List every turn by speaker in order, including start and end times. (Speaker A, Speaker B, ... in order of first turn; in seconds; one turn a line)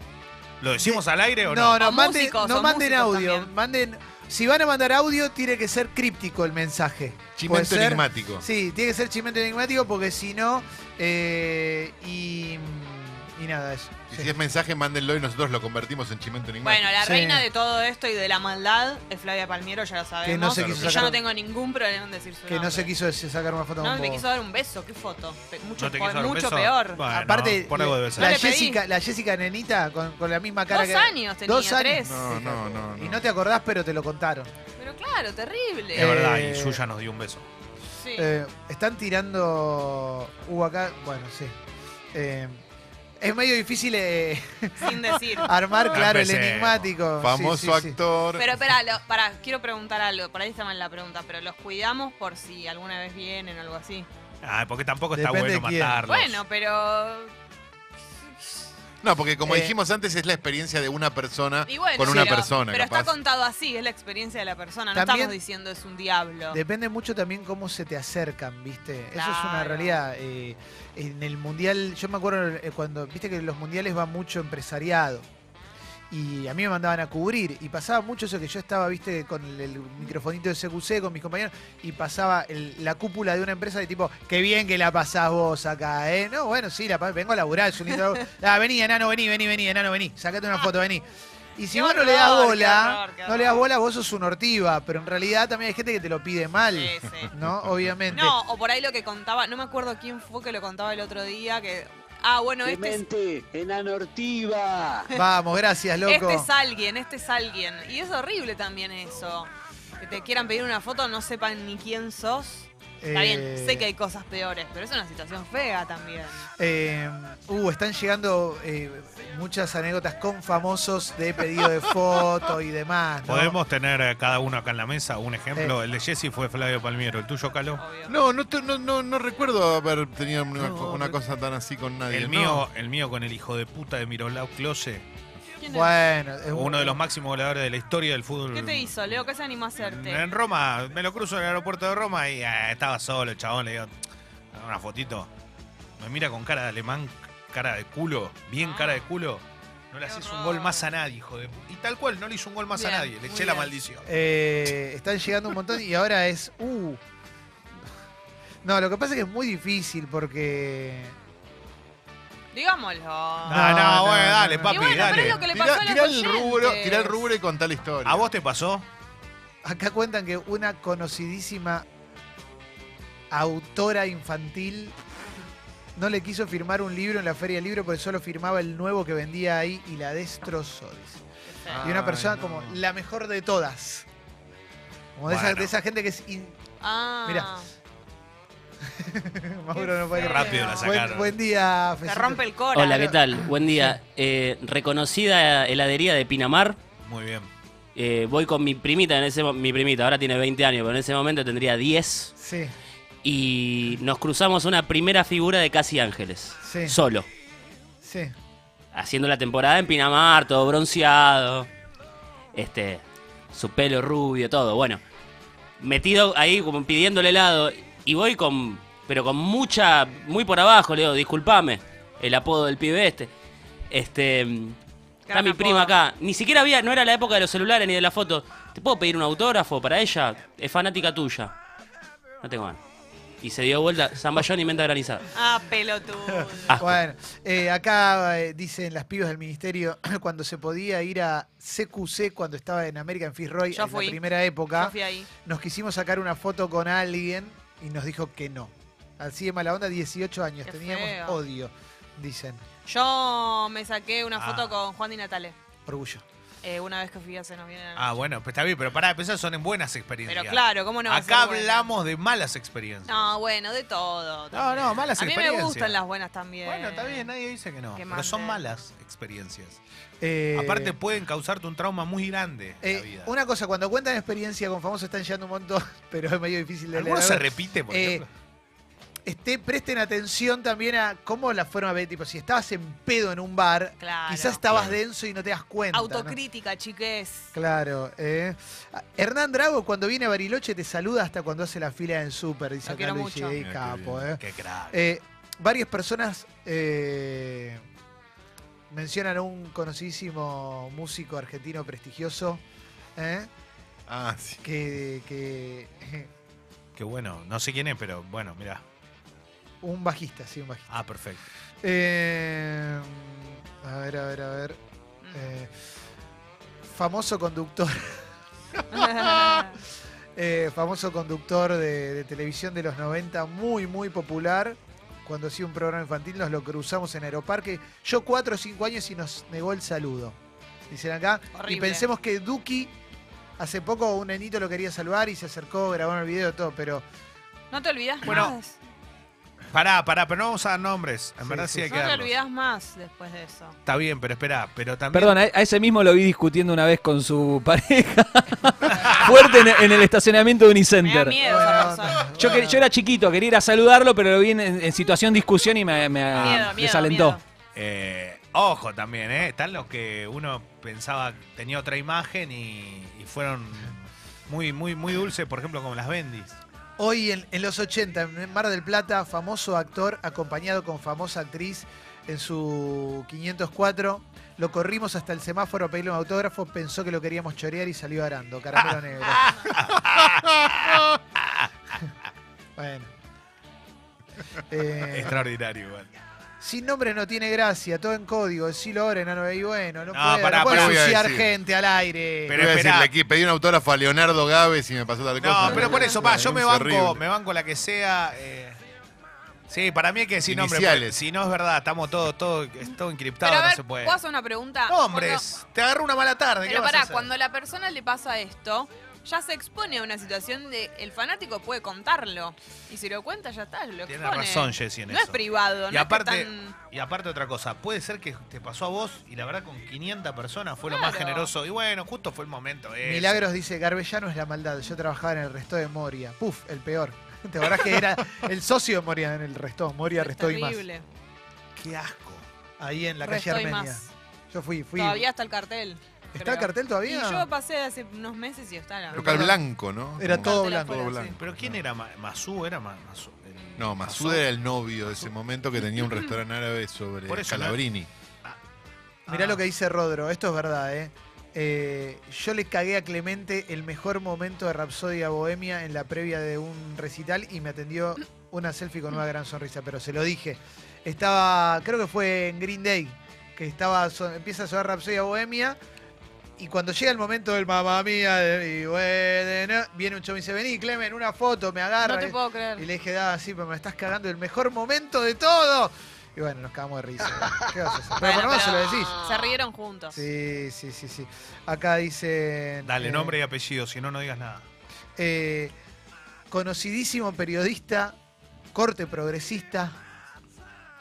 Speaker A: 0.6-1.9
Speaker B: 0.8-14.4
Speaker C: 1.8-3.5
Speaker D: 7.4-8.4
Speaker D: 14.1-17.0
Speaker C: 16.6-22.9
Speaker B: 17.0-17.5
Speaker B: 20.2-21.2
Speaker A: 20.6-21.1
Speaker B: 22.5-24.2
Speaker C: 23.8-27.0
Speaker A: 25.8-28.4
Speaker B: 27.1-34.5
Speaker C: 28.2-28.8
Speaker C: 30.7-32.3
Speaker D: 32.0-33.2
Speaker C: 34.8-36.1
Speaker B: 35.9-36.8
Speaker A: 35.9-37.5
Speaker C: 38.0-38.3
Speaker B: 38.2-41.5
Speaker B: 42.1-42.6
Speaker B: 43.2-48.0
Speaker C: 44.8-45.6
Speaker A: 45.9-46.9
Speaker D: 47.2-48.6
Speaker C: 48.4-54.1
Speaker A: 54.4-56.4
Speaker B: 55.1-56.0
Speaker C: 56.0-57.3
Speaker D: 59.0-63.1
Speaker B: 59.4-59.8
Speaker C: 61.6-66.6
Speaker B: 62.0-62.5
Speaker B: 64.9-65.4
Speaker B: 66.5-75.3
Speaker C: 69.1-70.0
Speaker B: 76.1-91.0
Speaker B: 91.6-98.4
Speaker C: 91.7-93.7
Speaker C: 96.7-97.3
Speaker D: 97.4-97.9
Speaker C: 98.1-103.0
Speaker E: 102.6-105.0
Speaker B: 105.1-106.5
Speaker C: 106.0-116.5
Speaker B: 113.0-113.9
Speaker B: 116.6-123.6
Speaker A: 123.3-127.8
Speaker C: 127.8-128.2
Speaker D: 128.1-132.7
Speaker B: 130.7-131.1
Speaker A: 132.1-135.1
Speaker C: 135.6-136.0
Speaker B: 135.7-137.0
Speaker A: 136.5-139.3
Speaker C: 138.5-140.3
Speaker A: 139.8-143.9
Speaker A: 144.5-145.3
Speaker A: 146.0-154.1
Speaker C: 148.6-149.1
Speaker C: 150.1-150.9
Speaker C: 152.7-153.8
Speaker B: 154.0-157.0
Speaker B: 158.6-161.2
Speaker C: 162.5-163.7
Speaker A: 163.4-165.4
Speaker B: 163.5-165.4
Speaker C: 164.7-167.3
Speaker D: 165.3-168.3
Speaker A: 168.0-168.9
Speaker B: 169.6-171.8
Speaker B: 173.3-174.9
Speaker B: 176.0-181.2
Speaker C: 181.5-181.8
Speaker D: 181.7-182.8
Speaker B: 181.8-184.1
Speaker B: 185.2-186.6
Speaker A: 185.3-185.7
Speaker C: 186.8-187.7
Speaker B: 187.2-187.5
Speaker B: 189.0-194.0
Speaker C: 189.7-190.9
Speaker A: 190.1-191.4
Speaker C: 192.1-193.1
Speaker F: 192.7-196.8
Speaker A: 197.0-197.5
Speaker F: 197.9-202.3
Speaker B: 202.4-202.7
Speaker F: 203.2-207.3
Speaker B: 206.6-207.0
Speaker B: 208.0-208.3
Speaker F: 208.9-211.7
Speaker F: 212.5-215.0
Speaker F: 215.8-223.3
Speaker F: 223.9-224.8
Speaker C: 225.3-226.0
Speaker F: 225.3-231.5
Speaker F: 232.4-232.8
Speaker F: 233.4-235.2
Speaker C: 235.3-236.8
Speaker F: 236.7-237.0
Speaker B: 236.7-252.6
Speaker C: 243.7-245.3
Speaker C: 250.7-251.4
Speaker C: 252.8-255.6
Speaker A: 254.3-254.8
Speaker B: 255.9-256.2
Speaker C: 256.6-258.1
Speaker A: 257.9-263.3
Speaker C: 260.3-261.9
Speaker C: 263.1-267.3
Speaker A: 264.5-266.0
Speaker A: 266.6-269.8
Speaker C: 267.9-268.6
Speaker B: 270.2-271.0
Speaker A: 270.5-273.3
Speaker B: 272.8-278.3
Speaker A: 276.9-278.3
Speaker B: 279.3-286.4
Speaker C: 284.0-284.6
Speaker A: 284.7-285.0
Speaker C: 285.9-287.5
Speaker B: 287.5-297.8
Speaker C: 292.9-293.6
Speaker D: 293.6-294.3
Speaker A: 294.4-295.0
Speaker B: 298.9-302.6
Speaker B: 303.2-303.5
Speaker D: 304.1-304.6
Speaker B: 304.6-306.3
Speaker A: 307.0-308.8
Speaker B: 309.8-310.9
Speaker A: 310.9-311.4
Speaker B: 311.8-314.8
Speaker C: 315.2-315.5
Speaker B: 315.3-315.7
Speaker B: 316.9-318.2
Speaker B: 318.8-319.6
Speaker C: 318.9-319.8
Speaker B: 320.4-330.4
Speaker B: 330.9-332.9
Speaker C: 331.5-332.1
Speaker B: 333.6-337.0
Speaker C: 337.7-338.8
Speaker A: 338.2-338.5
Speaker A: 339.7-342.3
Speaker B: 341.4-341.9
Speaker C: 341.9-343.8
Speaker A: 343.9-345.4
Speaker G: 345.1-351.4
Speaker A: 348.9-349.2
Speaker C: 351.0-352.5
Speaker B: 351.4-352.9
Speaker G: 352.1-357.4
Speaker A: 356.3-356.8
Speaker C: 356.4-357.4
Speaker A: 357.8-366.6
Speaker B: 367.0-379.6
Speaker A: 378.8-382.0
Speaker B: 382.8-383.1
Speaker B: 384.7-385.5
Speaker A: 385.0-386.2
Speaker B: 386.6-392.6
Speaker A: 390.1-391.0
Speaker D: 390.7-391.5
Speaker A: 392.5-393.1
Speaker D: 392.6-397.2
Speaker A: 395.4-398.8
Speaker A: 399.7-404.2
Speaker D: 400.5-401.2
Speaker C: 403.4-405.4
Speaker A: 404.9-407.3
Speaker C: 406.6-416.8
Speaker A: 414.1-423.4
Speaker C: 420.9-421.5
Speaker B: 423.0-430.8
Speaker C: 430.1-431.1
Speaker A: 431.8-432.4
Speaker B: 432.8-435.3
Speaker C: 433.2-434.1
Speaker C: 434.9-439.3
Speaker B: 436.3-437.5
Speaker B: 439.1-439.6
Speaker D: 439.1-441.8
Speaker B: 440.1-441.3
Speaker C: 440.4-441.4
Speaker A: 441.4-444.5
Speaker D: 443.8-448.1
Speaker A: 445.9-446.1
Speaker A: 447.3-447.8
Speaker A: 449.3-449.6
Speaker B: 449.3-465.8
Speaker B: 466.6-479.2
Speaker C: 472.0-472.9
Speaker C: 478.2-480.2
Speaker B: 480.1-483.4
Speaker A: 482.8-484.7
Speaker B: 485.2-485.7
Speaker B: 486.5-488.1
Speaker B: 488.7-490.0